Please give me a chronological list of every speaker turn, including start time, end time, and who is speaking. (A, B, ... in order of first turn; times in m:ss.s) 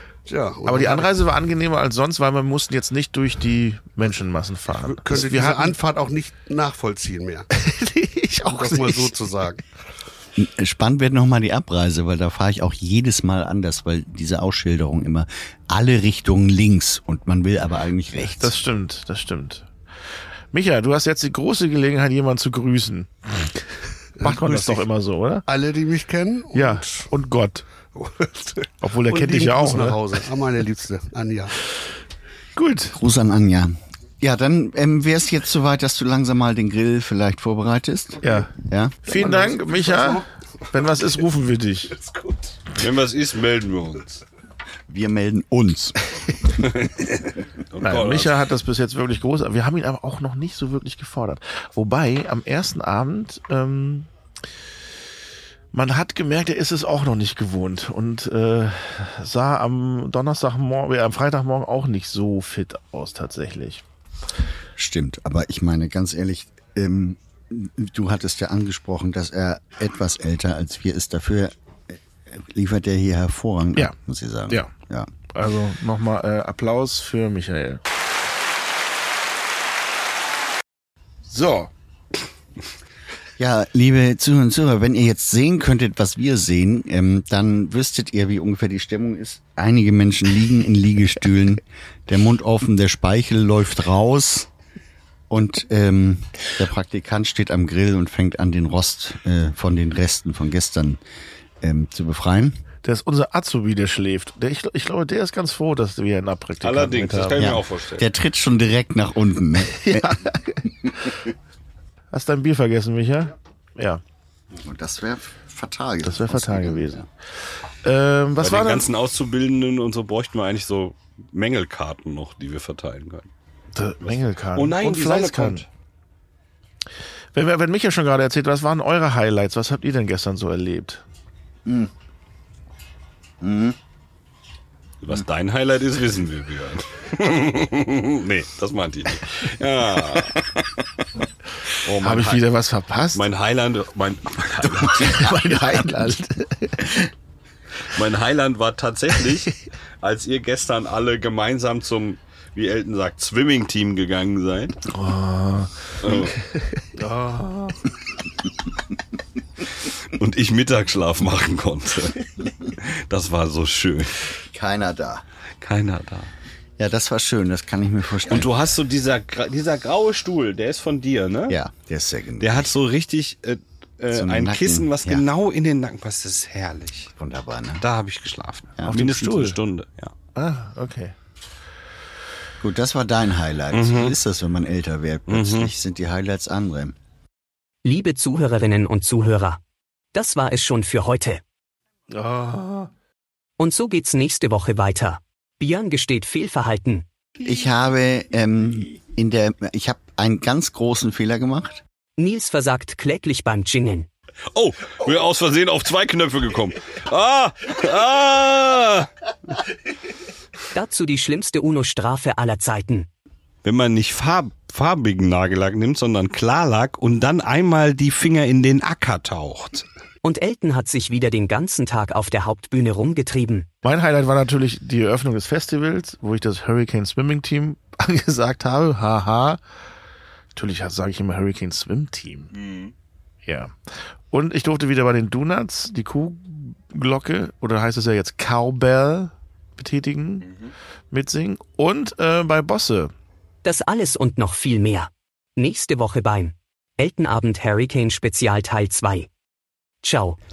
0:00.3-0:01.2 A
0:00.7-0:05.8 B
0:04.8-0:07.5 A
0:07.6-0:09.1 B
0:08.5-0:09.6 A
0:10.4-0:18.5 C
0:18.2-0:19.7 B
0:20.5-0:23.6 B
0:24.2-0:24.9 A
0:24.2-0:25.5 B
0:25.5-0:27.1 A
0:26.5-0:27.7 B
0:27.9-0:31.6 A
0:28.8-0:30.0 B
0:32.6-0:33.0 B
0:32.9-0:39.0 C
0:38.2-0:38.5 B
0:39.0-0:42.0 B
0:39.1-0:40.2 A
0:42.2-0:42.4 A
0:42.7-0:44.2 D
0:44.9-0:46.0 C
0:46.6-0:48.3 D
0:47.8-0:54.1 B
0:55.7-1:03.8 B
1:04.8-1:15.1 C
1:15.3-1:17.8 B
1:21.3-1:21.7 B
1:23.4-1:34.5 C
1:35.3-1:41.0 C
1:41.6-1:42.6 C
1:42.8-1:47.5 B
1:46.6-1:48.1 D
1:47.4-1:50.2 C
1:49.7-1:51.1 B
1:52.1-1:54.0 B
1:54.5-1:57.0 C
1:56.0-1:57.0 B
1:57.8-1:58.9 B
1:58.4-2:03.3 D
2:03.8-2:05.6 B
2:04.0-2:05.7 D
2:07.3-2:11.0 B
2:11.7-2:11.9 C
2:13.4-2:13.8 C
2:15.0-2:20.8 D
2:21.7-2:22.4 D
2:22.0-2:23.3 B
2:23.1-2:25.3 D
2:24.6-2:26.1 C
2:25.0-2:27.0 B
2:27.9-2:34.8 D
2:34.9-2:37.7 B
2:36.0-2:36.4 D
2:39.9-2:44.3 D
2:44.5-2:45.2 C
2:45.6-2:46.3 D
2:46.8-2:48.5 C
2:48.3-2:51.6 D
2:51.5-2:52.8 C
2:52.4-2:57.1 D
2:54.1-2:55.2 C
2:57.2-2:57.8 C
2:57.8-3:00.1 D
2:58.9-2:59.6 B
3:00.4-3:01.2 B
3:02.6-3:07.0 C
3:03.7-3:04.2 D
3:05.3-3:05.7 D
3:07.8-3:09.6 E
3:10.1-3:11.4 E
3:12.1-3:12.9 B
3:13.6-3:17.1 E
3:17.4-3:21.8 C
3:22.2-3:24.1 E
3:24.5-3:29.1 D
3:30.7-3:33.1 E
3:33.6-3:39.9 D
3:40.2-3:43.7 E
3:43.8-3:49.6 B
3:50.6-3:52.5 B
3:52.5-3:52.9 D
3:53.5-3:53.7 B
3:54.3-4:00.5 B
4:01.1-4:03.1 B
4:03.6-4:09.3 E
4:10.0-4:10.4 E